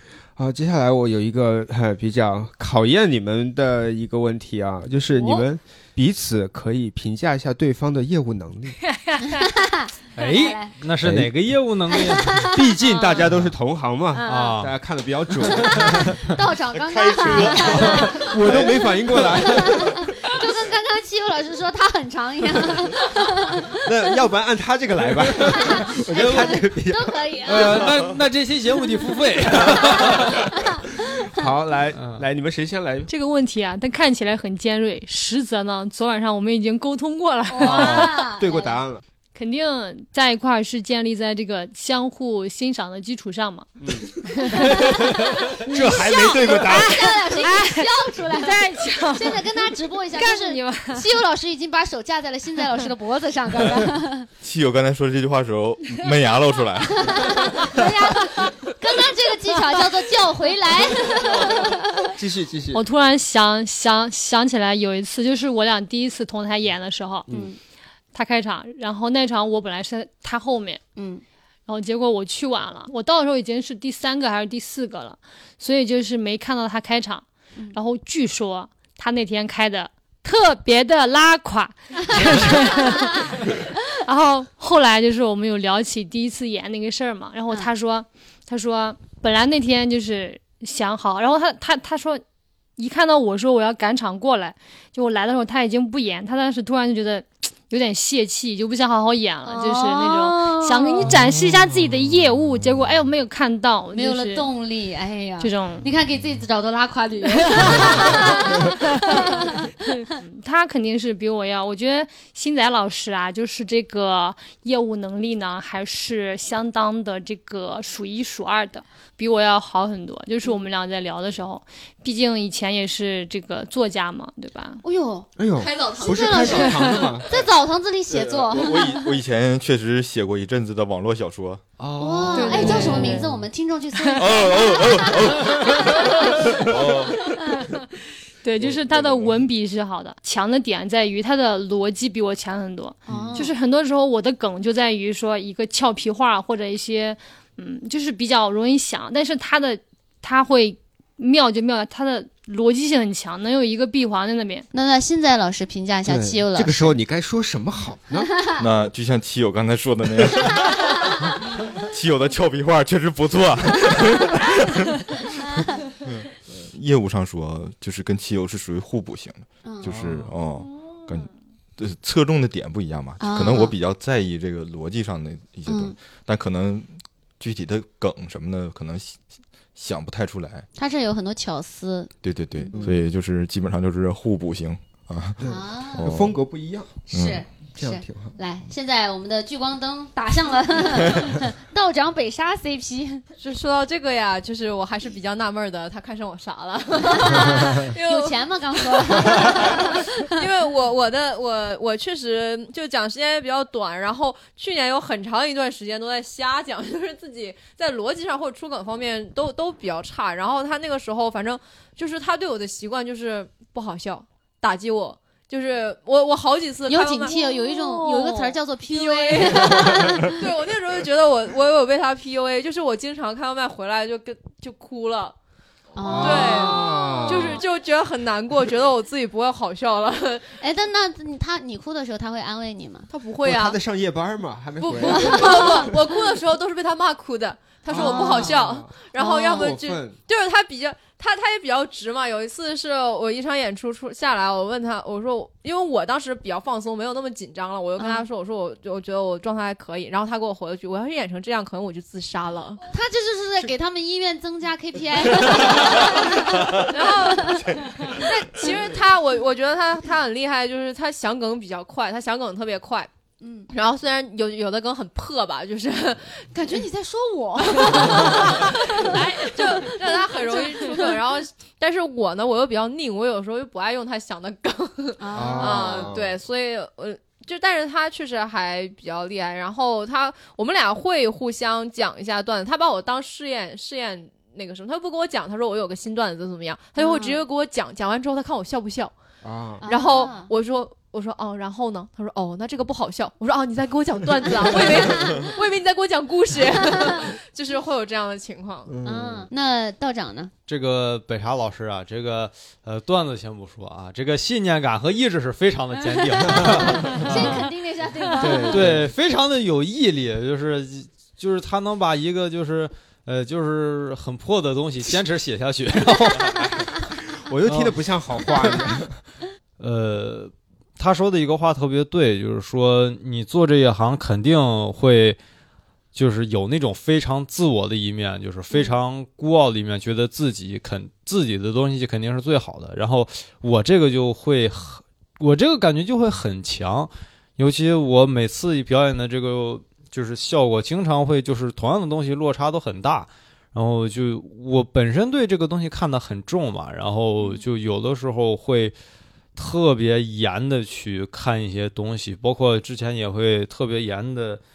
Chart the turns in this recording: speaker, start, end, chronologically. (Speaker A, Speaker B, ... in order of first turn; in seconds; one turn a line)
Speaker A: 0.4-8.8
Speaker B: 5.2-5.4
Speaker C: 8.9-9.5
Speaker B: 9.4-10.7
Speaker D: 10.2-12.5
Speaker A: 11.0-11.3
Speaker B: 11.9-13.2
Speaker A: 12.4-16.2
Speaker D: 13.2-13.5
Speaker B: 14.1-14.6
Speaker D: 14.2-14.7
Speaker B: 15.4-18.3
Speaker D: 15.7-16.0
Speaker E: 16.7-18.7
Speaker A: 17.4-20.1
Speaker D: 18.3-18.6
Speaker B: 19.1-23.8
Speaker A: 23.8-28.0
Speaker B: 25.5-27.9
Speaker D: 27.4-30.5
Speaker A: 29.5-30.5
Speaker B: 30.3-31.3
Speaker A: 31.0-33.1
Speaker D: 31.9-32.3
Speaker C: 33.1-38.2
Speaker B: 37.5-38.8
Speaker A: 37.6-39.0
Speaker C: 39.4-43.7
Speaker A: 43.8-47.1
Speaker C: 44.2-44.9
Speaker B: 44.6-54.3
Speaker C: 45.4-51.1
Speaker E: 54.4-57.4
Speaker B: 57.0-62.1
Speaker A: 61.3-62.8
Speaker C: 62.7-67.3
Speaker A: 67.3-67.5
Speaker B: 67.3-67.6
Speaker C: 68.1-70.8
Speaker B: 71.0-71.2
Speaker C: 71.7-92.2
Speaker B: 82.8-83.4
Speaker C: 92.8-104.5
Speaker B: 99.4-101.2
Speaker B: 103.9-110.1
Speaker C: 105.4-105.9
Speaker C: 107.5-124.8
Speaker B: 124.8-129.1
Speaker A: 125.4-127.3
Speaker F: 125.6-126.7
Speaker E: 128.1-131.6
Speaker A: 131.8-133.4
Speaker B: 132.0-137.3
Speaker C: 132.3-133.2
Speaker C: 134.0-134.3
Speaker E: 134.2-137.6
Speaker C: 138.4-154.7
Speaker A: 143.1-143.5
Speaker B: 143.1-143.5
Speaker B: 154.7-156.9
Speaker A: 156.1-158.3
Speaker E: 158.6-160.9
Speaker E: 161.7-164.9
Speaker E: 166.0-179.2
Speaker B: 169.6-170.0
Speaker A: 169.8-170.3
Speaker C: 170.6-171.3
Speaker B: 173.2-173.8
Speaker B: 175.7-175.9
Speaker E: 179.8-180.7
Speaker B: 180.8-182.8
Speaker E: 182.2-186.3
Speaker A: 185.4-186.9
Speaker B: 185.4-186.1
Speaker B: 187.1-193.2
Speaker E: 187.1-187.4
Speaker A: 187.8-188.4
Speaker F: 193.4-225.4
Speaker B: 197.0-200.5
Speaker B: 216.9-220.5
Speaker B: 226.0-227.6
Speaker A: 226.0-227.6
Speaker F: 226.1-230.6
Speaker B: 230.6-233.1
Speaker F: 233.1-233.8
Speaker A: 233.4-236.0
Speaker F: 234.8-252.8
Speaker B: 235.0-235.9
Speaker A: 237.9-240.2
Speaker B: 237.9-238.6
Speaker B: 239.2-239.8
Speaker B: 248.0-248.3
Speaker B: 252.9-258.7
Speaker F: 256.8-263.1
Speaker B: 263.4-263.7
Speaker F: 263.7-266.9
Speaker B: 266.5-271.1
Speaker F: 267.7-289.1
Speaker C: 269.1-269.5
Speaker B: 275.2-276.1
Speaker A: 275.3-276.4
Speaker B: 287.0-287.4
Speaker A: 289.4-289.9
Speaker B: 289.8-290.5
Speaker F: 289.9-298.9
Speaker B: 294.6-295.4
Speaker A: 298.9-299.5
Speaker B: 299.0-300.5
Speaker D: 300.7-307.7
Speaker B: 306.1-309.0
Speaker A: 306.5-307.0
Speaker A: 308.4-309.1
Speaker D: 308.4-316.8
Speaker B: 316.4-316.7
Speaker A: 317.4-319.2
Speaker D: 317.7-318.0
Speaker D: 319.8-325.4
Speaker D: 326.1-348.9
Speaker B: 347.4-347.6
Speaker D: 349.6-354.6